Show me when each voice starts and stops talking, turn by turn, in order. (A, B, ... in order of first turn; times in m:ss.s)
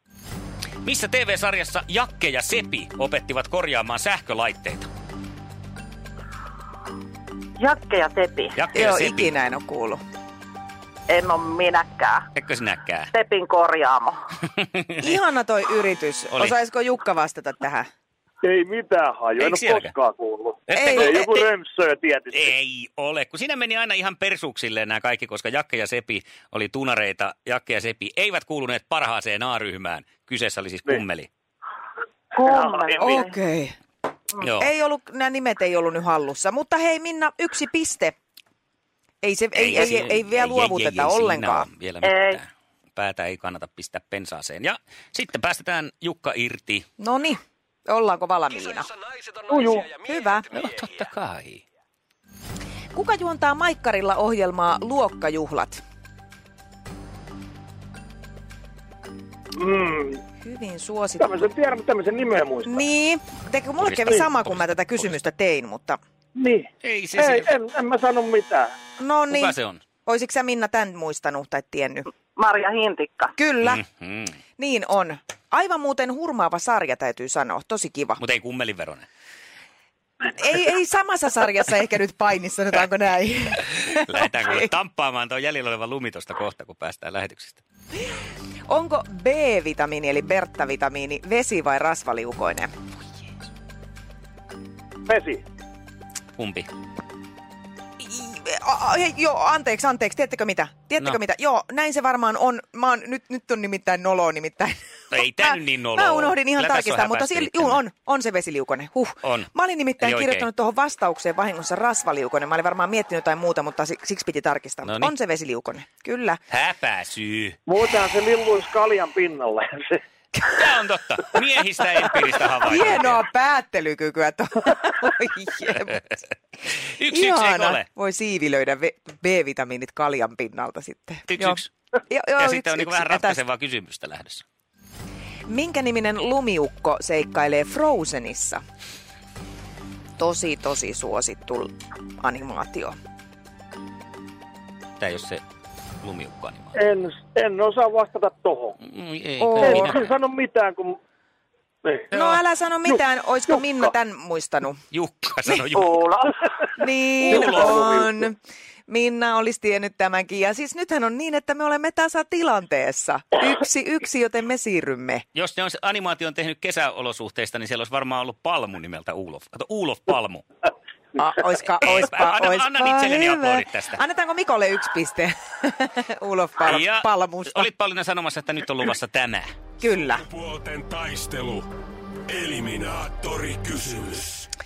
0:00.8-0:04.9 A
0:07.6-0:08.5 B
0:08.6-0:09.3 A
0:08.8-0:10.0 C
0:11.1-0:12.3 B
0:12.4-0:13.1 A
0:13.1-0:14.2 B
0:14.5-0:15.1 A
0:15.0-0:17.9 C
0:18.4-0:22.5 D
0:19.4-0:19.9 A
0:20.7-0:21.5 A
0:20.8-0:21.2 C
0:22.3-0:31.3 A
0:32.3-0:33.4 B
0:32.4-0:33.2 D
0:33.0-0:33.8 C
0:34.4-0:34.7 A
0:34.6-0:38.1 C
0:39.2-0:41.7 C
0:39.6-0:46.9 A
0:42.0-0:42.4 B
0:47.0-0:48.9 C
0:49.5-0:49.9 D
0:50.0-0:50.5 C
0:50.5-0:51.6 A
0:52.9-0:55.8 C
0:59.6-1:00.2 D
1:00.4-1:01.6 C
1:01.2-1:02.8 D
1:02.7-1:06.0 C
1:03.8-1:05.2 A
1:06.4-1:08.7 D
1:06.8-1:07.5 A
1:09.0-1:12.1 C
1:09.3-1:09.8 A
1:12.4-1:13.4 B
1:13.4-1:13.8 C
1:13.6-1:14.4 A
1:14.6-1:18.2 C
1:18.2-1:19.1 A
1:20.3-1:24.7 C
1:23.8-1:27.6 A
1:28.7-1:32.7 C
1:35.1-1:35.4 D
1:36.4-1:36.7 A
1:38.0-1:56.4 C
1:45.1-1:47.8 A
1:49.2-1:49.5 A
1:50.0-1:50.5 A
1:54.8-1:55.1 A
1:56.5-1:57.6 A
1:57.7-2:00.0 D
2:00.5-2:03.2 A
2:02.6-2:06.0 C
2:07.0-2:07.9 A
2:07.1-2:13.4 C
2:11.3-2:11.7 A
2:12.4-2:14.4 A
2:15.5-2:18.6 C
2:20.2-2:23.0 C
2:25.0-2:25.4 A
2:26.0-2:26.8 A
2:26.8-2:28.7 D
2:28.8-2:30.1 A
2:29.4-2:30.0 C
2:29.6-2:31.0 D
2:31.8-2:32.1 D
2:32.1-2:34.8 C
2:33.5-2:33.9 D
2:34.9-2:36.0 A
2:35.7-2:36.4 B
2:36.8-2:38.4 C
2:37.3-2:37.8 A
2:37.3-2:38.1 D
2:38.9-2:45.2 C
2:45.4-2:50.4 A
2:51.2-2:57.7 C
2:51.8-2:54.0 A
2:56.6-2:59.5 A
2:59.8-3:00.2 C
3:00.7-3:01.6 E
3:02.4-3:04.2 E